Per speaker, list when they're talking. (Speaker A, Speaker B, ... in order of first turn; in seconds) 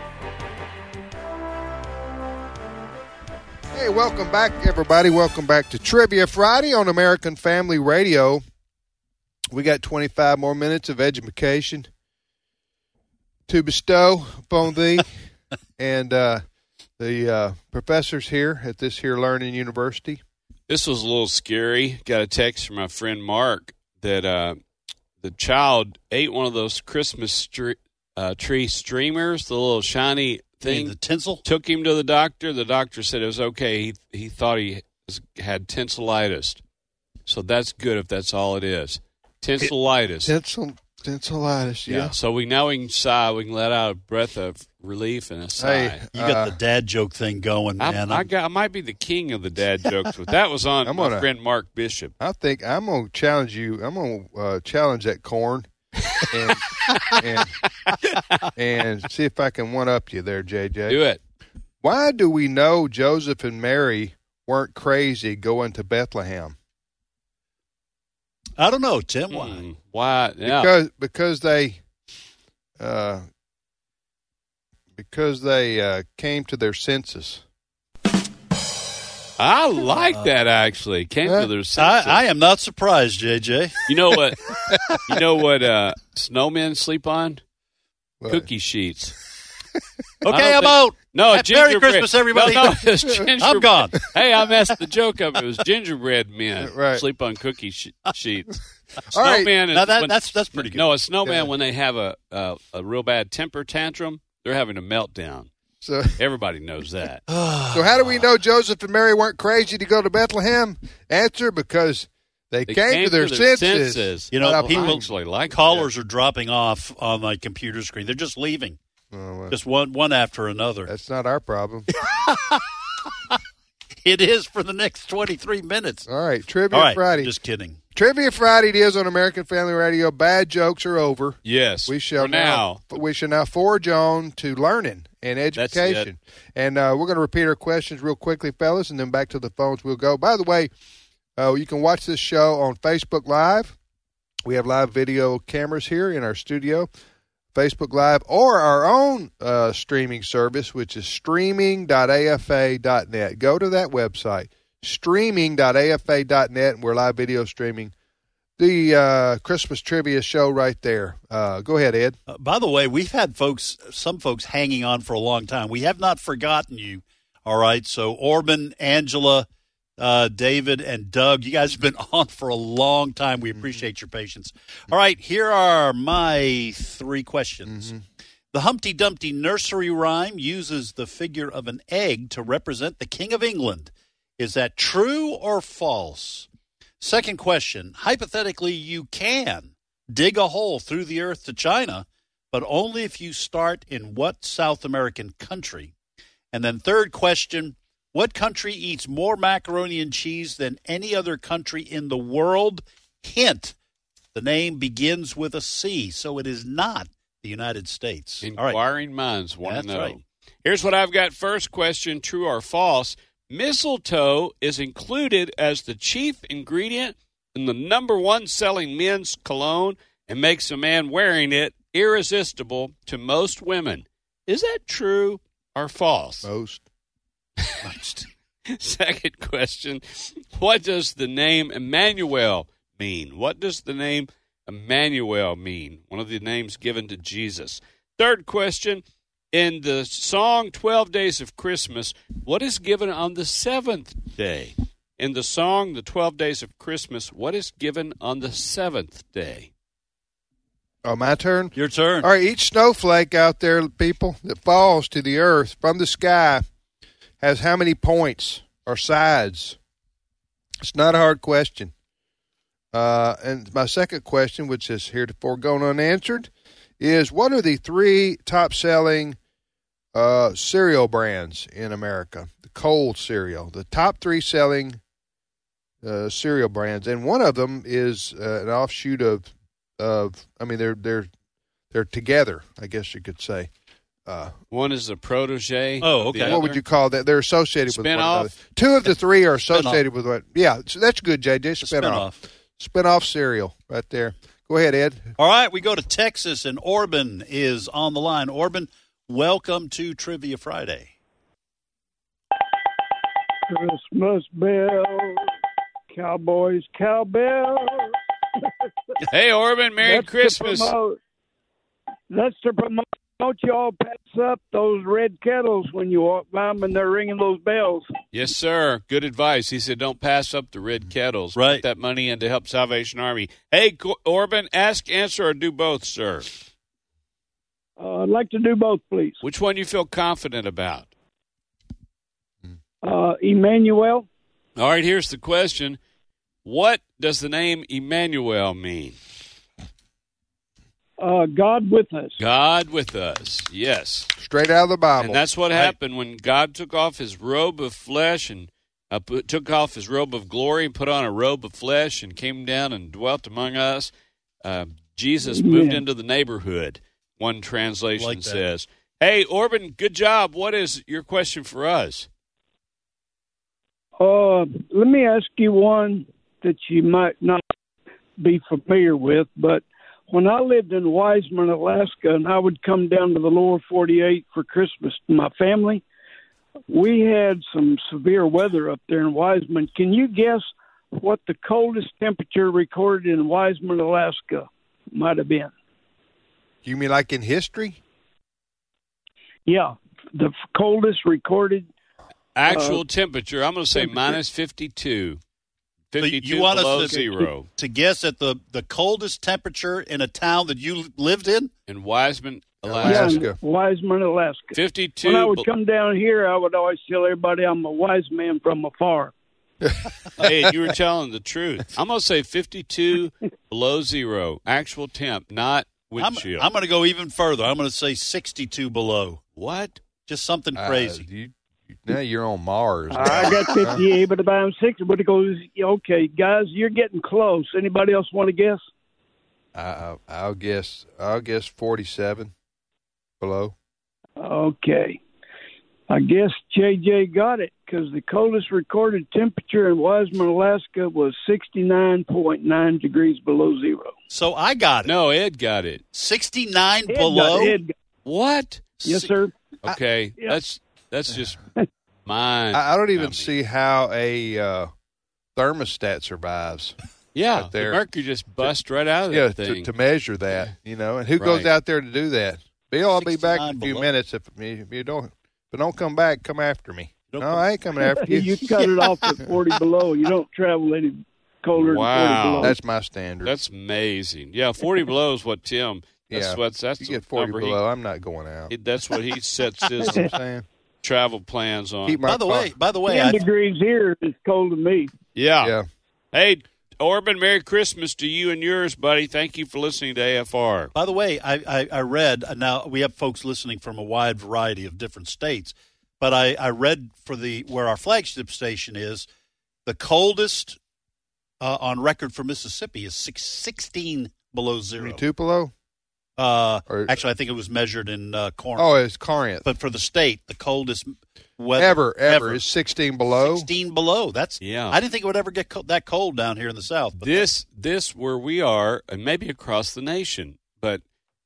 Speaker A: 3.7-8.4, 9.5-11.9, 13.5-15.1, 15.8-16.4, 17.0-20.2, 40.2-42.1, 45.6-46.6, 50.9-51.3, 52.2-55.7, 56.3-57.5, 58.6-61.0, 61.8-66.5, 70.5-71.8, 72.8-73.2, 75.0-77.4, 81.2-81.5, 88.2-88.5, 96.6-97.0, 99.1-99.5, 101.2-101.5, 105.8-106.2, 107.7-115.1, 119.1-119.6, 120.9-121.9, 126.1-127.3, 128.0-140.7, 141.4-143.8, 144.4-146.9, 147.5-157.9, 158.6-162.2, 173.6-173.9, 177.7-178.0, 226.4-226.8, 251.0-256.6, 257.4-259.8, 260.8-261.9, 262.9-269.4, 270.1-275.0, 276.0-281.3, 281.9-283.7, 284.3-284.6, 286.4-295.3, 344.4-345.4, 386.8-388.0, 402.9-403.6, 409.8-410.7, 420.8-424.0, 429.8-432.5, 433.4-433.7, 452.7-454.9, 455.6-456.9, 457.6-458.0, 459.3-468.7, 472.6-473.5, 476.3-478.7, 480.1-480.6, 482.1-482.7, 505.0-505.7, 506.9-507.2, 508.8-509.6, 511.8-513.7
Speaker B: 20.7-24.6, 25.2-36.6, 37.3-40.3, 41.9-46.0, 47.8-52.1, 60.9-61.2, 69.3-70.7, 79.4-82.2, 83.9-87.4, 88.3-89.2, 90.3-98.6, 99.1-105.5, 106.2-107.2, 112.7-115.9, 131.4-132.8, 135.6-136.1, 208.4-226.5, 228.7-249.7, 284.7-286.8, 287.9-288.6, 309.3-310.9, 318.3-326.5, 329.4-331.1, 334.8-336.0, 336.6-339.2, 342.4-344.3, 345.2-354.1, 354.6-362.3, 392.6-395.4, 396.1-397.7, 401.9-403.5, 404.7-405.7, 410.4-416.7, 419.6-420.0, 445.1-446.0, 448.2-448.8, 449.8-451.6, 452.3-453.5, 457.4-459.9, 461.4-461.7, 471.8-472.7, 473.4-477.8, 478.7-480.3, 481.0-482.2, 485.4-485.8, 486.3-490.9, 514.6-515.0, 517.2-521.0
Speaker C: 30.6-31.4, 46.1-48.2, 68.6-69.6, 79.9-80.3, 81.8-85.0, 90.2-92.8, 93.4-94.1, 99.7-100.8, 107.3-108.3, 114.3-118.8, 119.5-120.9, 122.0-122.7, 124.0-126.1, 126.7-127.8, 162.3-169.5, 170.0-177.9, 178.5-186.5, 187.0-195.9, 196.5-203.8, 204.3-208.8, 209.7-210.2, 227.8-228.3, 251.8-252.3, 286.0-286.6, 289.7-290.0, 291.8-292.4, 295.4-301.1, 321.6-321.8, 358.2-358.6, 396.2-401.7, 416.2-419.4, 420.3-421.2, 444.3-445.1, 446.1-447.8, 449.0-449.3, 463.2-464.1, 467.3-467.6, 482.3-483.5, 490.9-499.3, 499.9-500.8, 501.6-505.2, 506.4-508.9, 509.6-512.6, 513.3-517.5
Speaker D: 303.7-305.5, 306.1-308.9, 310.0-311.2, 312.3-318.1, 328.0-329.4, 333.0-334.3, 341.2-342.4, 355.4-356.0, 364.2-367.6, 368.4-376.0, 376.9-385.7, 389.7-391.9, 392.7-393.0, 393.9-394.4, 403.0-409.3, 423.1-428.8, 434.4-435.2, 436.1-444.1, 447.1-447.9, 449.0-449.5, 468.1-472.8, 483.1-485.1